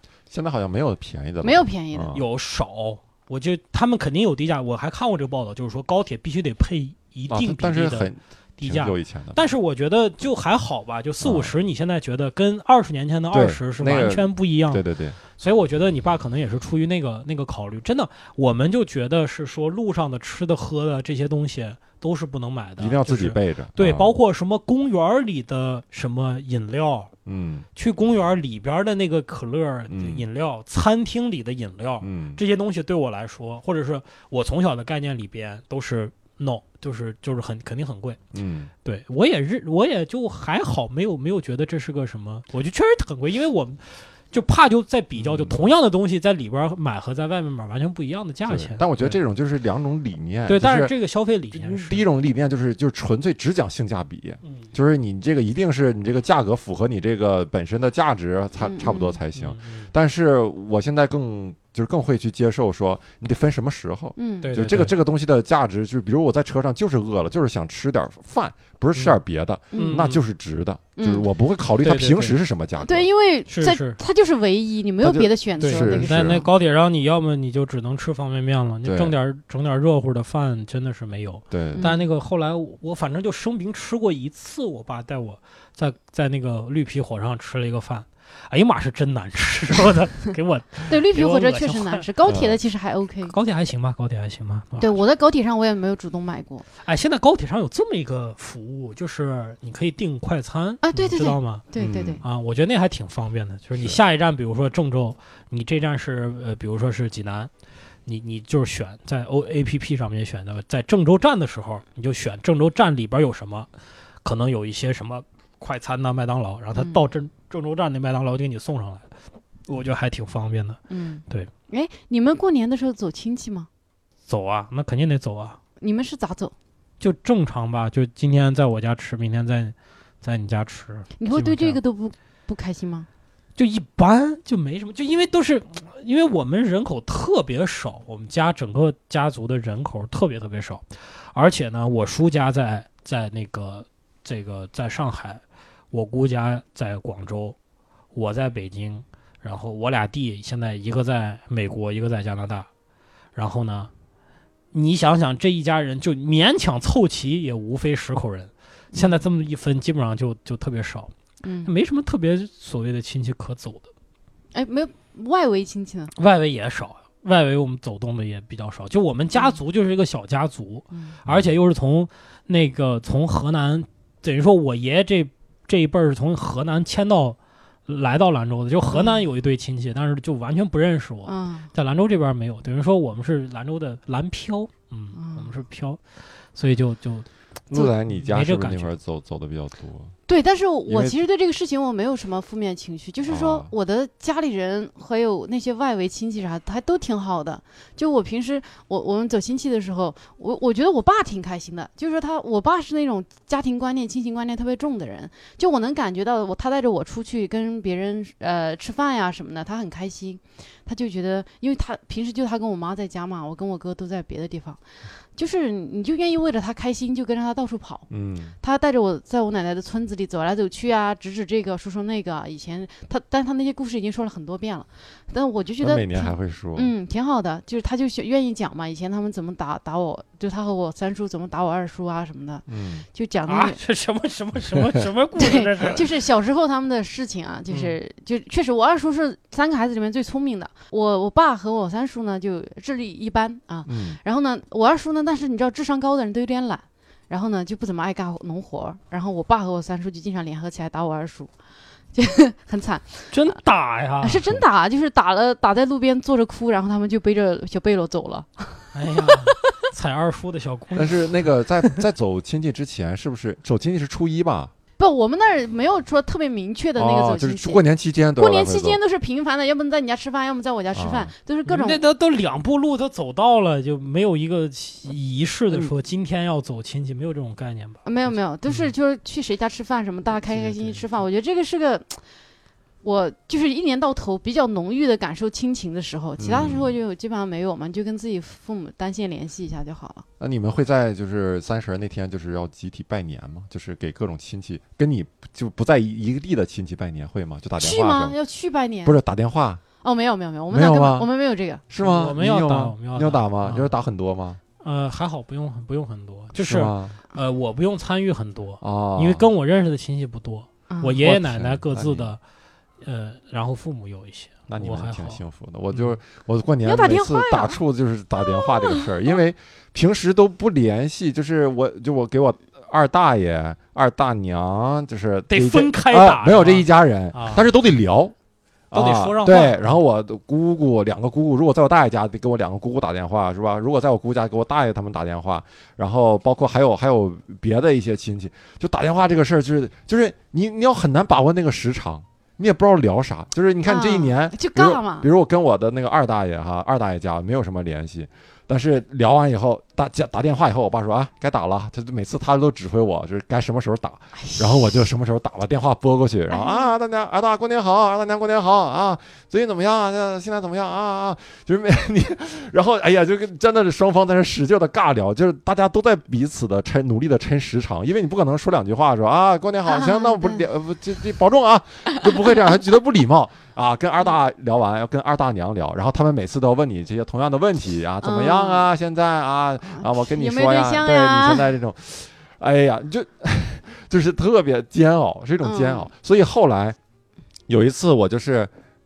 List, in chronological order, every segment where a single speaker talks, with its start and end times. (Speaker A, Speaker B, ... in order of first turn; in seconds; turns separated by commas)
Speaker A: 0.3-2.2, Speaker B: 1.4-2.2, Speaker C: 2.1-27.1, Speaker A: 7.3-9.4, Speaker A: 11.2-11.6, Speaker A: 13.3-15.2, Speaker A: 22.8-24.2, Speaker A: 27.3-27.7, Speaker C: 27.8-38.2, Speaker A: 29.9-30.2, Speaker A: 32.0-32.4, Speaker A: 38.3-38.7, Speaker C: 38.8-49.2, Speaker A: 45.2-45.6, Speaker A: 48.5-50.9, Speaker C: 50.5-52.0, Speaker A: 51.5-73.1, Speaker B: 58.6-59.2, Speaker C: 59.4-59.9, Speaker B: 64.2-64.5, Speaker C: 64.4-64.9, Speaker B: 69.7-70.1, Speaker C: 69.8-70.2, Speaker B: 71.0-71.2, Speaker C: 71.8-72.4, Speaker B: 72.8-76.5, Speaker C: 73.5-74.0, Speaker A: 75.0-76.5, Speaker C: 75.6-92.1, Speaker A: 78.8-79.2, Speaker A: 81.5-81.9, Speaker B: 81.8-82.0, Speaker B: 90.9-93.3, Speaker A: 92.3-92.6, Speaker C: 93.3-94.9, Speaker B: 94.8-96.7, Speaker C: 96.8-101.7, Speaker B: 100.8-102.2, Speaker A: 101.8-102.2, Speaker C: 102.2-107.5, Speaker C: 108.1-113.7, Speaker C: 114.2-119.1, Speaker B: 116.8-117.0, Speaker C: 119.7-121.5, Speaker B: 120.9-123.7, Speaker C: 124.3-125.6, Speaker B: 125.8-126.5, Speaker C: 127.0-131.8, Speaker B: 131.2-133.1, Speaker C: 133.6-147.6, Speaker C: 148.1-152.7, Speaker C: 153.3-153.9, Speaker C: 154.7-161.1, Speaker B: 161.4-161.7, Speaker C: 161.7-163.9, Speaker B: 164.5-166.1, Speaker C: 166.2-186.0, Speaker B: 169.3-169.6, Speaker A: 171.3-171.5, Speaker B: 178.9-179.2, Speaker B: 181.3-181.7, Speaker B: 185.2-185.6, Speaker C: 186.5-188.9, Speaker A: 187.7-190.1, Speaker B: 190.3-214.8, Speaker A: 190.9-191.2, Speaker A: 193.3-193.7, Speaker B: 215.4-218.1, Speaker A: 218.1-218.6, Speaker B: 218.6-233.8, Speaker A: 225.8-226.9, Speaker A: 232.7-233.1, Speaker C: 233.5-236.0, Speaker B: 235.4-251.5, Speaker A: 243.9-244.2, Speaker B: 252.1-253.6, Speaker C: 253.3-254.5, Speaker B: 254.2-259.5, Speaker C: 258.9-261.5, Speaker A: 260.9-264.7, Speaker B: 265.0-267.8, Speaker A: 267.0-269.0, Speaker B: 268.4-272.0, Speaker A: 270.9-271.3, Speaker C: 271.7-278.9, Speaker B: 278.1-282.2, Speaker A: 280.5-281.0, Speaker B: 283.0-290.2, Speaker A: 286.4-286.9, Speaker A: 290.4-298.4, Speaker B: 297.8-299.2, Speaker A: 299.1-299.8, Speaker B: 300.0-301.8, Speaker A: 300.7-301.3, Speaker A: 301.9-304.6, Speaker C: 302.0-303.9, Speaker C: 304.8-312.4, Speaker A: 306.6-307.2, Speaker A: 308.8-309.5, Speaker B: 310.9-311.1, Speaker A: 311.2-312.3, Speaker C: 313.0-315.4, Speaker A: 314.7-328.3, Speaker B: 316.9-317.8, Speaker C: 325.5-327.7, Speaker A: 328.9-387.0, Speaker C: 328.9-329.9, Speaker B: 343.9-345.3, Speaker B: 354.4-354.9, Speaker B: 356.5-356.9, Speaker B: 369.9-370.7, Speaker B: 378.2-378.9, Speaker B: 379.9-381.7, Speaker B: 385.6-386.1, Speaker A: 387.7-388.7